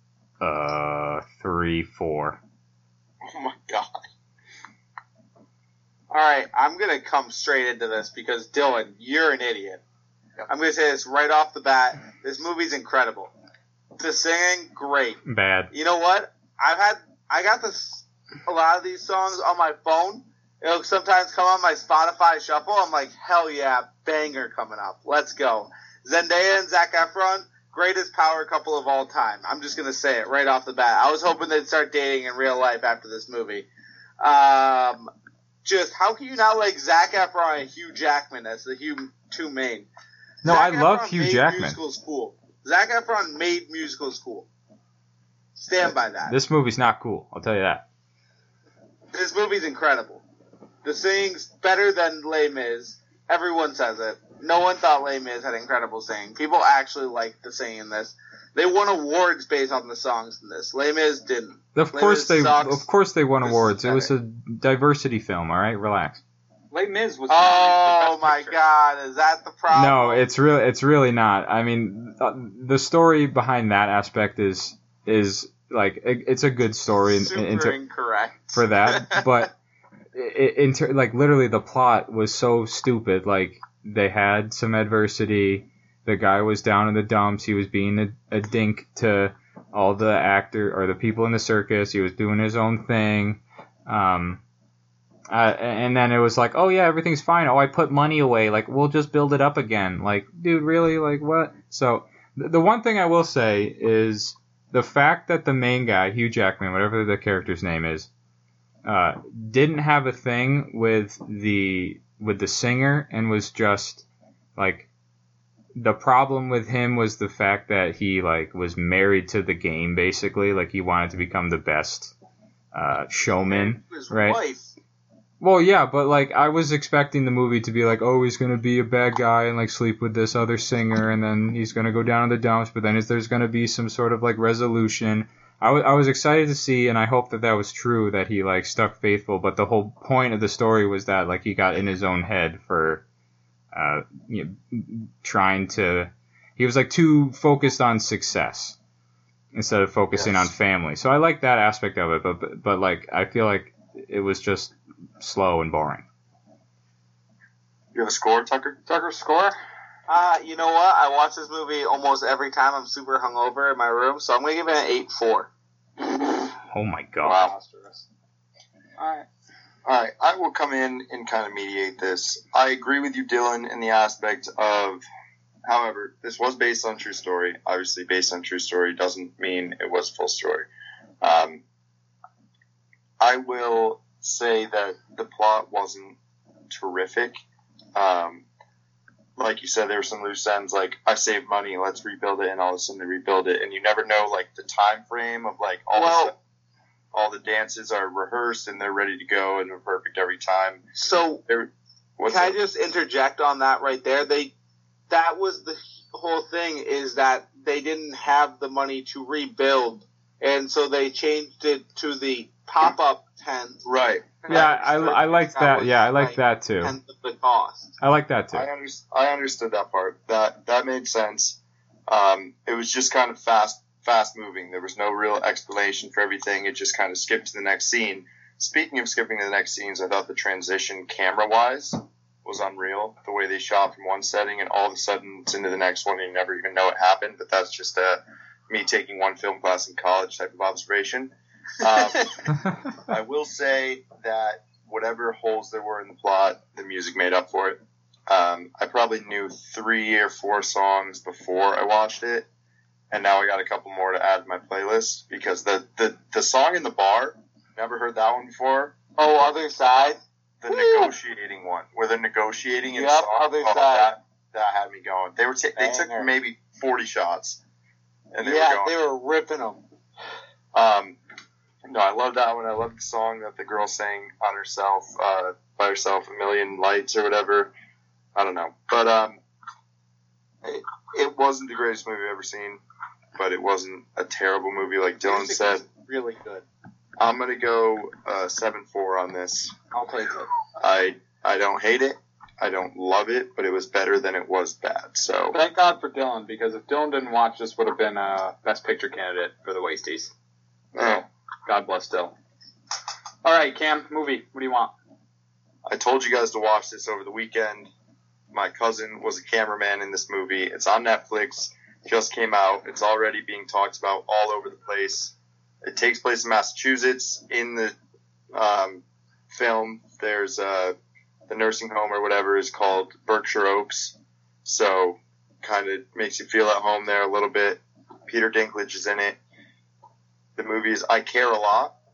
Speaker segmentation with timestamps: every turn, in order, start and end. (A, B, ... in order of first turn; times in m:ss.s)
0:00.4-0:02.4 A
0:03.3-0:04.0 B
0:06.1-0:09.8 C
0:10.5-0:13.3 C
0:14.0-0:15.2 C
0:15.3-0:15.7 A
0:15.7-0:33.7 C
0:34.2-0:35.1 C
0:35.6-0:39.9 C
0:40.4-0:41.8 A
0:40.4-0:44.5 C
0:45.6-0:46.4 C
0:45.9-0:47.9 A
0:49.1-0:50.2 C
0:50.8-1:02.9 C
1:01.8-1:06.2 A
1:03.4-1:04.1 C
1:06.7-1:08.6 D
1:07.3-1:10.2 C
1:09.7-1:17.8 A
1:17.1-1:19.4 C
1:18.5-1:19.6 A
1:20.1-1:34.4 A
1:35.3-1:48.1 A
1:48.8-1:54.9 A
1:55.8-2:02.1 A
2:02.7-2:04.4 A
2:03.5-2:04.7 C
2:05.4-2:23.0 A
2:23.7-2:28.8 A
2:29.5-2:36.1 A
2:30.1-2:30.5 B
2:37.9-2:38.8 B
2:38.9-2:39.6 D
2:40.1-2:45.5 C
2:46.7-2:47.5 A
2:47.2-2:47.5 B
2:47.3-2:48.0 D
2:49.0-2:49.3 D
2:49.8-2:55.0 B
2:55.7-3:00.7 B
3:01.2-3:01.6 B
3:03.2-3:06.2 B
3:06.7-3:07.4 B
3:08.0-3:08.4 B
3:09.4-3:16.4 B
3:15.9-3:16.3 C
3:17.1-3:20.8 B
3:21.0-3:21.4 C
3:21.5-3:22.6 B
3:22.3-3:24.5 C
3:25.1-3:33.8 C
3:33.8-3:35.1 B
3:34.4-3:37.9 C
3:34.5-3:37.0 A
3:38.0-3:38.7 A
3:38.5-4:12.5 B
4:13.1-4:19.0 B
4:19.2-4:21.1 C
4:20.6-4:27.6 B
4:22.9-4:24.1 C
4:25.8-4:26.3 C
4:28.3-4:28.9 B
4:28.4-4:29.8 C
4:30.7-4:31.2 B
4:31.8-4:37.7 B
4:38.4-4:39.4 B
4:40.6-4:42.8 B
4:43.4-4:45.8 B
4:45.2-4:46.7 C
4:47.2-4:49.7 B
4:49.9-4:50.5 C
4:50.8-4:55.6 B
4:55.5-5:00.3 D
5:00.9-5:02.4 D
5:01.0-5:01.2 B
5:03.4-5:04.9 D
5:05.9-5:07.9 B
5:08.5-5:18.0 B
5:18.5-5:21.0 B
5:21.5-5:29.4 B
5:30.6-5:31.9 B